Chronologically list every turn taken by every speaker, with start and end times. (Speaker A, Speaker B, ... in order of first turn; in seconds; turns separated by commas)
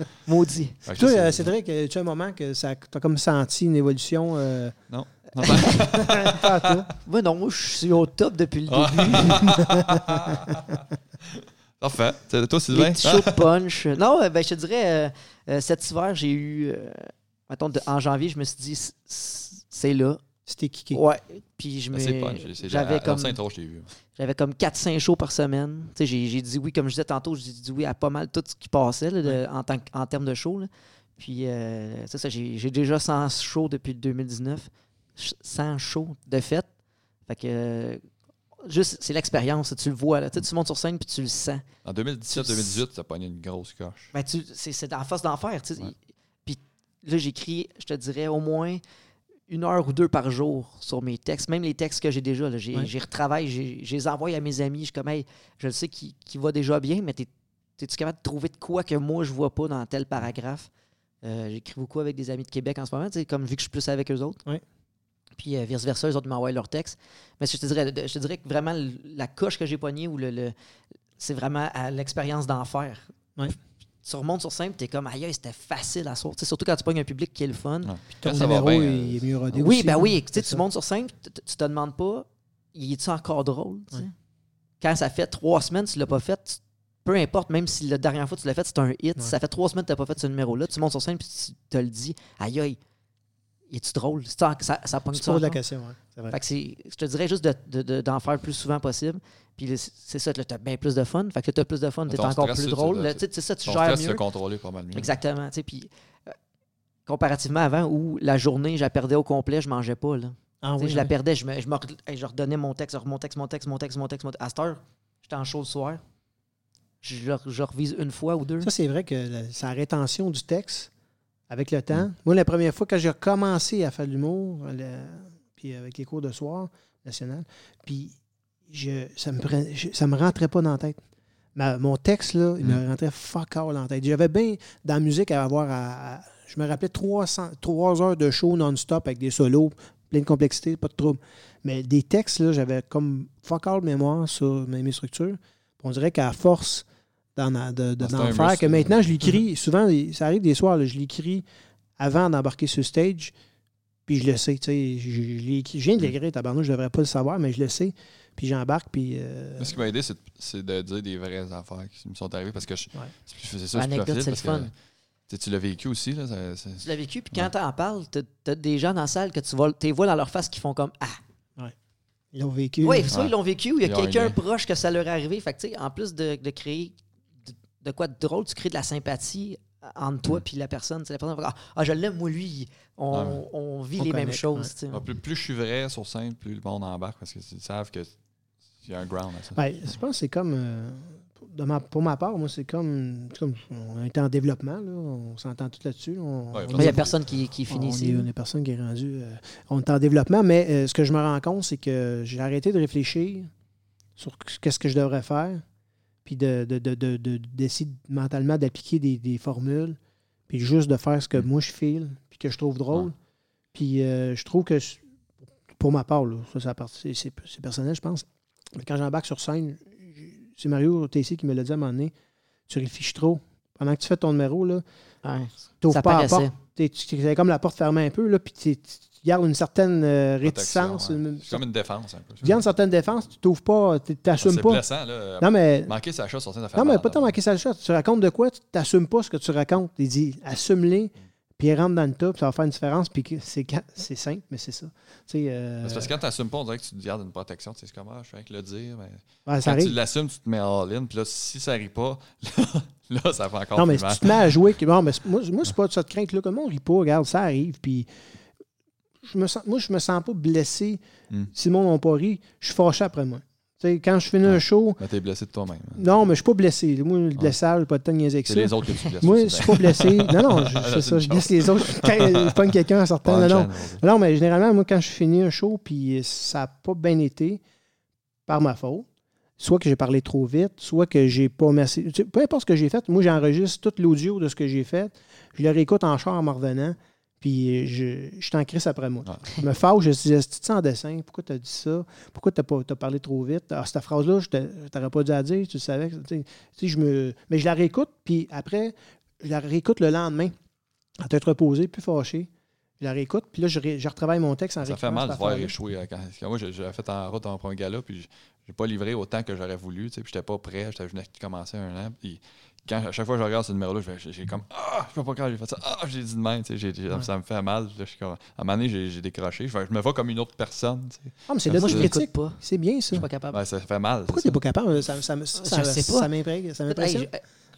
Speaker A: 0.2-0.8, Speaker B: 0.8-1.5, Speaker C: 1.0-4.8, Speaker B: 4.9-6.9, Speaker A: 5.4-6.0, Speaker C: 5.9-6.9, Speaker A: 7.0-9.6, Speaker B: 8.7-13.4, Speaker A: 12.7-20.2, Speaker C: 20.5-21.0, Speaker A: 20.9-23.4, Speaker B: 21.9-23.9, Speaker A: 24.1-36.7, Speaker A: 37.3-38.0, Speaker A: 38.6-41.6, Speaker B: 41.8-44.1, Speaker A: 42.3-42.8, Speaker A: 44.1-48.8, Speaker A: 49.5-60.7, Speaker A: 61.2-64.4, Speaker A: 65.4-70.5, Speaker A: 71.2-73.1, Speaker A: 74.0-77.9, Speaker B: 77.8-79.2, Speaker C: 78.2-80.6, Speaker A: 79.5-84.1, Speaker A: 84.8-92.8, Speaker A: 93.7-95.6, Speaker C: 95.1-96.3, Speaker A: 96.3-104.1, Speaker B: 102.1-105.1, Speaker C: 103.7-104.2, Speaker A: 104.9-106.3, Speaker A: 107.0-116.0, Speaker C: 110.6-111.1, Speaker A: 117.0-118.7, Speaker C: 118.6-120.9, Speaker C: 121.5-128.1, Speaker C: 128.7-131.0, Speaker C: 131.6-151.4, Speaker B: 148.0-149.3, Speaker C: 152.0-153.3, Speaker C: 154.1-159.8, Speaker B: 159.6-164.7, Speaker A: 163.7-164.7, Speaker B: 165.3-167.5, Speaker A: 166.8-171.2, Speaker C: 172.3-173.1, Speaker A: 172.8-185.0, Speaker B: 173.1-174.4, Speaker B: 183.1-183.4, Speaker C: 184.0-184.7, Speaker B: 184.9-188.1, Speaker B: 188.8-189.6, Speaker C: 189.6-197.1, Speaker B: 196.5-197.1, Speaker A: 196.7-198.3, Speaker C: 197.7-203.5, Speaker C: 204.2-205.6, Speaker C: 206.2-210.0, Speaker C: 210.5-213.1, Speaker C: 213.7-215.0, Speaker C: 215.8-218.2, Speaker C: 218.8-222.1, Speaker C: 222.7-224.8, Speaker A: 225.2-226.5, Speaker C: 225.8-231.6, Speaker B: 230.4-232.6, Speaker C: 232.4-234.8, Speaker B: 234.4-237.3, Speaker C: 235.4-235.9, Speaker C: 236.7-246.1, Speaker B: 245.8-254.7, Speaker C: 249.4-249.9, Speaker C: 253.8-258.1, Speaker C: 259.2-261.0, Speaker C: 261.5-265.0, Speaker B: 264.4-266.1, Speaker C: 266.0-277.6, Speaker B: 268.5-272.6, Speaker B: 273.2-274.0, Speaker C: 278.5-279.1, Speaker C: 279.6-300.5, Speaker C: 301.2-302.5, Speaker C: 303.0-305.8, Speaker B: 304.8-322.1, Speaker C: 321.5-323.2, Speaker A: 321.8-322.6, Speaker A: 323.1-323.6, Speaker B: 323.1-324.6, Speaker C: 324.3-327.3, Speaker A: 325.6-326.3, Speaker A: 326.9-327.4